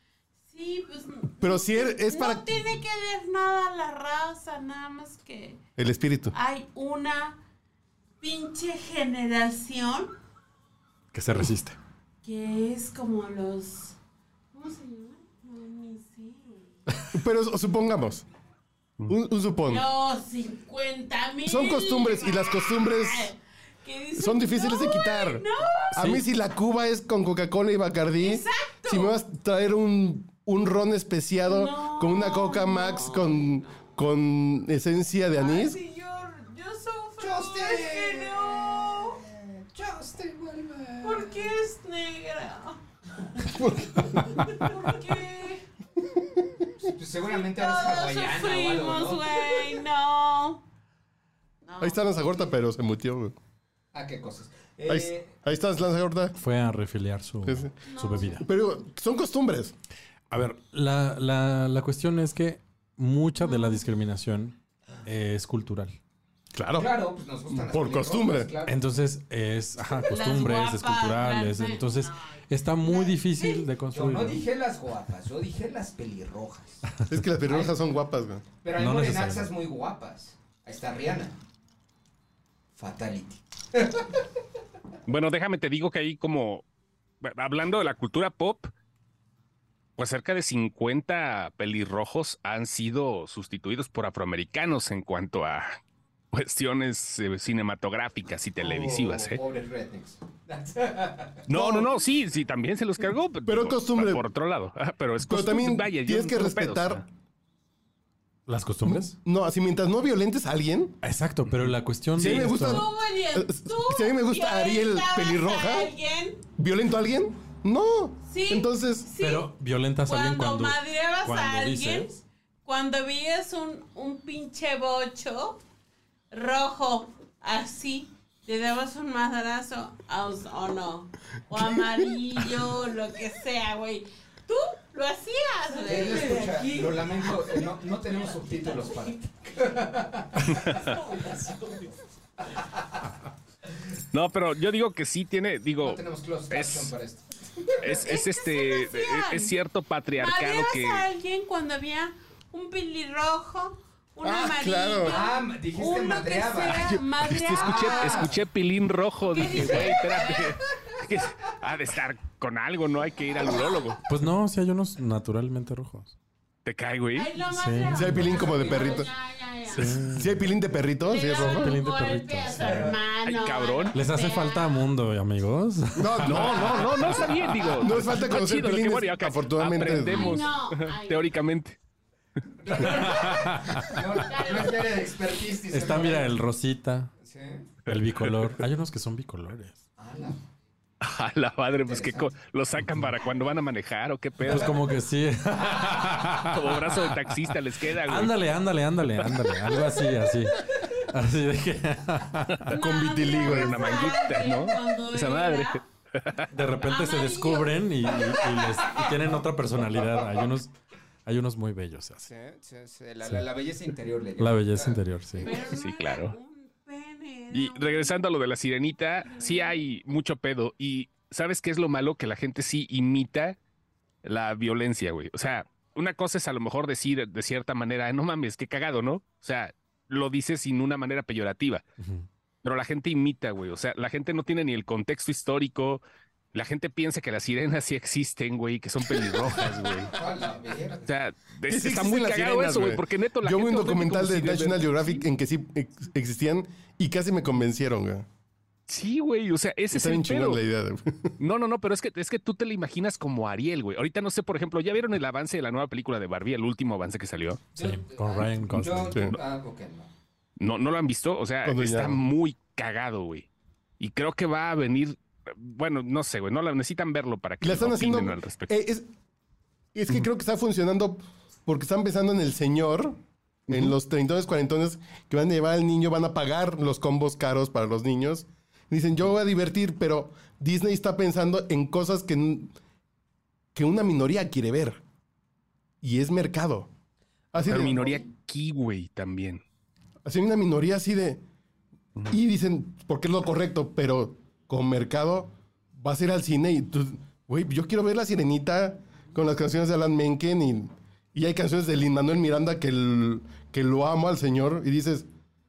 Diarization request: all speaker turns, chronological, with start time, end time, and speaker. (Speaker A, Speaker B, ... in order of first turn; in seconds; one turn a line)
Speaker A: 0.5-5.6
Speaker B: 1.4-2.7
Speaker B: 5.8-6.3
Speaker A: 6.3-7.4
Speaker A: 8.2-10.1
Speaker C: 11.1-11.8
Speaker A: 12.2-13.9
Speaker A: 14.5-16.8
Speaker B: 17.1-18.2
Speaker B: 19.1-19.9
Speaker A: 19.6-26.0
Speaker B: 21.4-23.3
Speaker B: 24.1-35.8
Speaker C: 25.9-26.2
Speaker A: 28.1-29.2
Speaker A: 31.4-33.8
Speaker A: 35.3-39.2
Speaker D: 37.2-41.5
Speaker A: 41.0-42.8
Speaker B: 43.5-44.5
Speaker A: 44.0-45.6
Speaker D: 46.8-49.8
Speaker A: 47.2-50.6
Speaker A: 51.6-52.3
Speaker B: 51.8-53.3
Speaker D: 53.9-55.3
Speaker B: 54.9-56.4
Speaker C: 56.4-58.4
Speaker B: 57.4-59.7
Speaker A: 57.8-58.4
Speaker C: 60.3-66.0
Speaker A: 63.4-63.8
Speaker B: 66.5-66.9
Speaker D: 66.8-68.8
Speaker B: 67.5-68.5
Speaker C: 68.7-74.4
Speaker A: 70.0-73.7
Speaker D: 73.9-76.9
Speaker B: 77.1-78.4
Speaker D: 77.4-77.8
Speaker D: 78.6-81.3
Speaker C: 78.8-79.5
Speaker D: 82.8-84.2
Speaker E: 85.1-86.7
Speaker E: 87.2-88.7
Speaker E: 90.0-95.8
Speaker E: 96.3-99.4
Speaker D: 98.6-101.4
Speaker E: 101.5-107.0
Speaker B: 101.5-101.9
Speaker B: 103.5-104.2
Speaker B: 105.2-107.0
Speaker C: 108.5-109.1
Speaker B: 108.8-111.0
Speaker C: 111.0-112.8
Speaker B: 112.2-115.9
Speaker E: 112.2-112.5
Speaker A: 112.3-116.4
Speaker B: 116.6-119.1
Speaker A: 118.3-119.5
Speaker C: 119.2-122.1
Speaker A: 120.0-125.6
Speaker A: 126.3-137.6
Speaker D: 135.8-140.9
Speaker A: 138.7-138.9
Speaker A: 140.7-141.8
Speaker D: 142.4-142.9
Speaker E: 144.1-146.9
Speaker D: 145.8-148.0
Speaker E: 147.8-151.1
Speaker A: 148.0-149.5
Speaker A: 150.1-158.3
Speaker B: 154.2-155.2
Speaker D: 155.0-158.4
Speaker B: 157.3-157.5
Speaker E: 157.4-164.0
Speaker A: 159.2-161.0
Speaker C: 164.0-166.1
Speaker E: 166.6-167.3
Speaker A: 167.1-170.1
Speaker C: 167.4-168.5
Speaker B: 167.9-169.1
Speaker D: 168.3-169.0
Speaker C: 169.7-170.4
Speaker B: 170.1-171.8
Speaker A: 171.0-174.8
Speaker C: 171.3-172.9
Speaker D: 172.6-172.9
Speaker E: 173.2-173.9
Speaker C: 173.9-177.3
Speaker B: 176.0-180.4
Speaker E: 176.2-181.8
Speaker A: 180.0-181.3
Speaker D: 182.6-186.3
Speaker C: 183.1-183.9
Speaker A: 184.2-184.8
Speaker C: 185.7-187.1
Speaker D: 187.2-187.7
Speaker C: 187.8-189.8
Speaker E: 187.9-188.5
Speaker D: 190.0-190.4
Speaker E: 191.0-194.8
Speaker D: 191.8-192.3
Speaker C: 194.4-197.2
Speaker E: 196.4-198.4
Speaker C: 198.0-202.7
Speaker B: 202.7-204.0
Speaker A: 202.7-205.8
Speaker E: 203.3-206.4
Speaker C: 206.5-210.7
Speaker A: 206.8-208.4
Speaker C: 211.2-212.3
Speaker D: 212.2-215.7
Speaker C: 214.4-215.5
Speaker A: 215.4-218.3
Speaker E: 215.6-216.3
Speaker E: 217.5-223.6
Speaker A: 219.2-219.8
Speaker E: 224.2-231.8
Speaker C: 232.0-232.3
Speaker E: 232.6-236.0
Speaker E: 236.5-240.2
Speaker D: 240.1-241.1
Speaker E: 241.1-245.2
Speaker B: 241.7-248.2
Speaker E: 248.9-250.6
Speaker B: 249.9-251.3
Speaker E: 251.4-257.6
Speaker D: 257.7-260.1
Speaker C: 257.8-259.3
Speaker E: 260.6-263.5
Speaker B: 261.6-262.2
Speaker E: 264.0-268.7
Speaker B: 267.6-269.1
Speaker B: 269.9-273.2
Speaker B: 273.7-282.7
Speaker B: 283.7-285.0
Speaker B: 286.0-286.9
Speaker B: 287.5-288.2
Speaker E: 287.6-289.6
Speaker D: 287.9-288.2
Speaker B: 290.2-291.4
Speaker B: 292.3-305.3